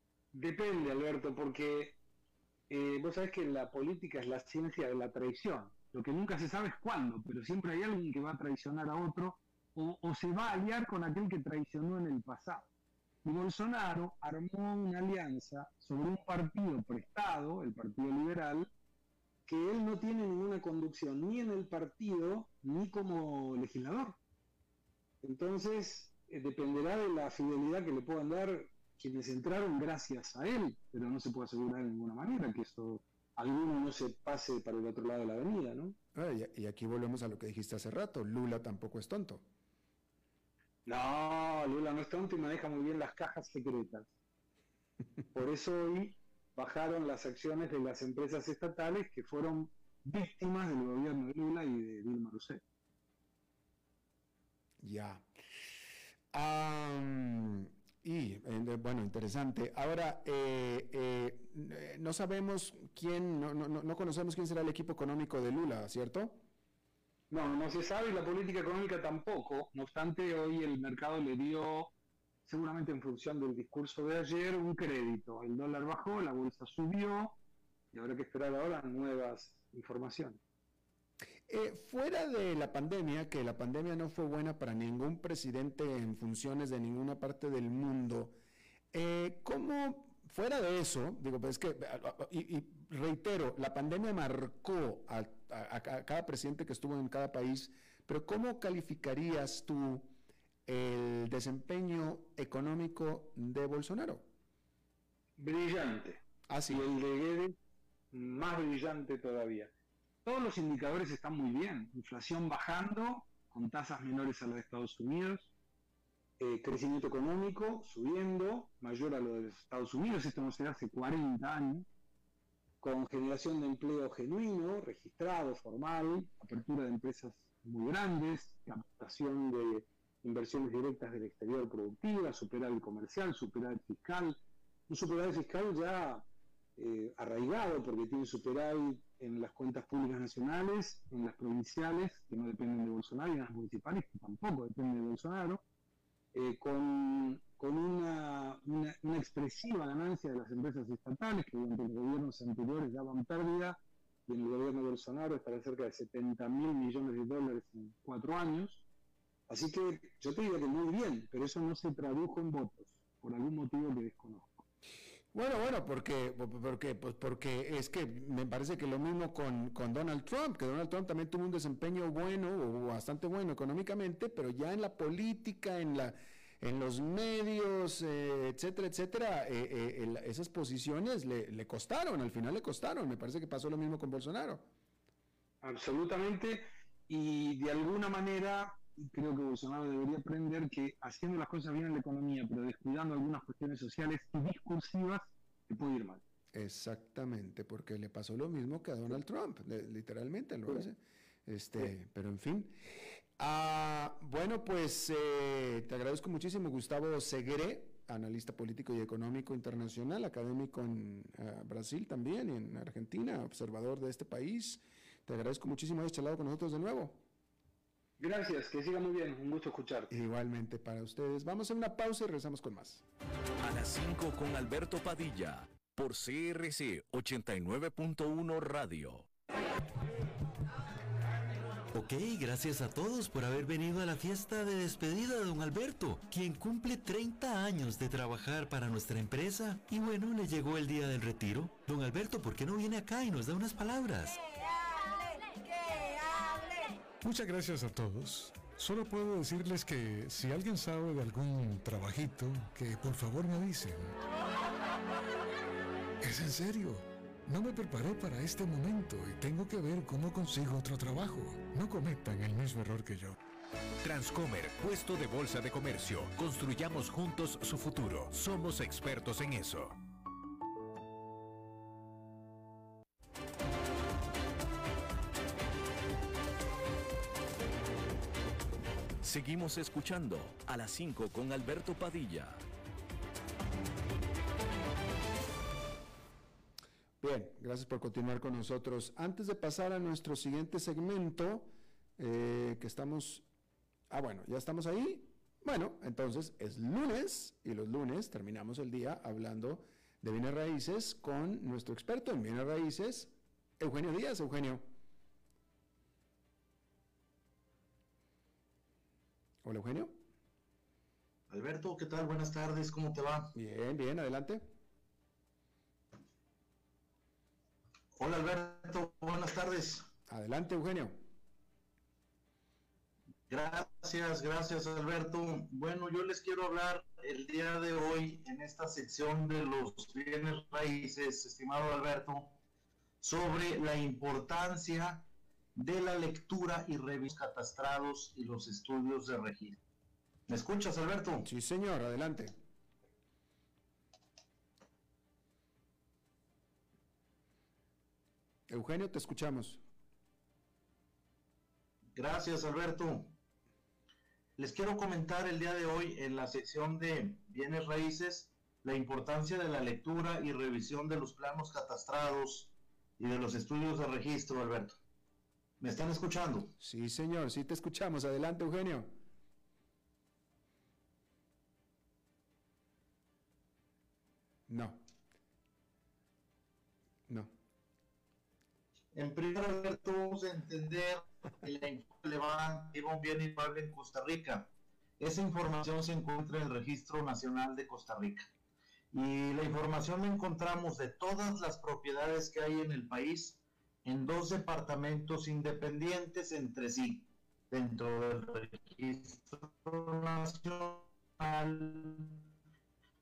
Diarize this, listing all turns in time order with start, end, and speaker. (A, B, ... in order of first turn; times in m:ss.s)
0:00.3-0:02.0 A
0:02.7-0:12.7 A
0:13.2-0:18.7 A
0:19.5-0:24.2 A
0:25.2-0:36.0 A
0:36.2-0:39.4 B
0:40.9-0:44.1 A
0:45.3-0:52.6 A
0:54.8-0:55.2 B
0:56.3-1:06.4 B
1:07.3-1:11.9 A
1:12.5-1:17.4 A
1:17.9-1:20.4 A
1:21.5-1:28.3 B
1:28.9-1:40.1 B
1:40.7-1:44.3 B
1:45.4-1:47.6 A
1:46.5-1:46.9 B
1:48.1-1:49.7 A
1:50.2-1:55.5 A
1:56.4-2:01.9 A
2:02.8-2:16.2 A
2:16.8-2:25.6 A
2:26.3-2:38.8 A
2:39.5-2:44.6 A
2:45.3-3:04.7 B
3:05.6-3:16.2 A
3:16.5-3:22.8 B
3:23.4-3:37.2 B
3:38.2-3:40.1 A
3:40.1-3:43.0 B
3:43.6-3:49.3 C
3:51.9-4:04.5 D
4:07.2-4:14.2 E
4:16.2-4:23.4 E
4:24.0-4:30.0 F
4:39.2-4:42.6 C
4:47.2-4:53.4 B
4:54.1-5:04.8 B
5:09.6-5:10.2 B
5:11.5-5:13.5 G
5:13.5-5:14.6 B
5:18.2-5:20.1 G
5:20.3-5:21.2 B
5:23.5-5:32.6 G
5:33.2-5:39.8 G
5:40.5-5:41.5 G
5:41.4-5:42.6 B
5:48.7-5:49.8 B
5:52.2-5:53.4 G
5:54.6-6:05.0 G
6:05.8-6:06.7 G
6:06.8-6:09.1 B
6:14.7-6:15.0 B
6:19.1-6:28.5 G
6:29.1-6:42.4 G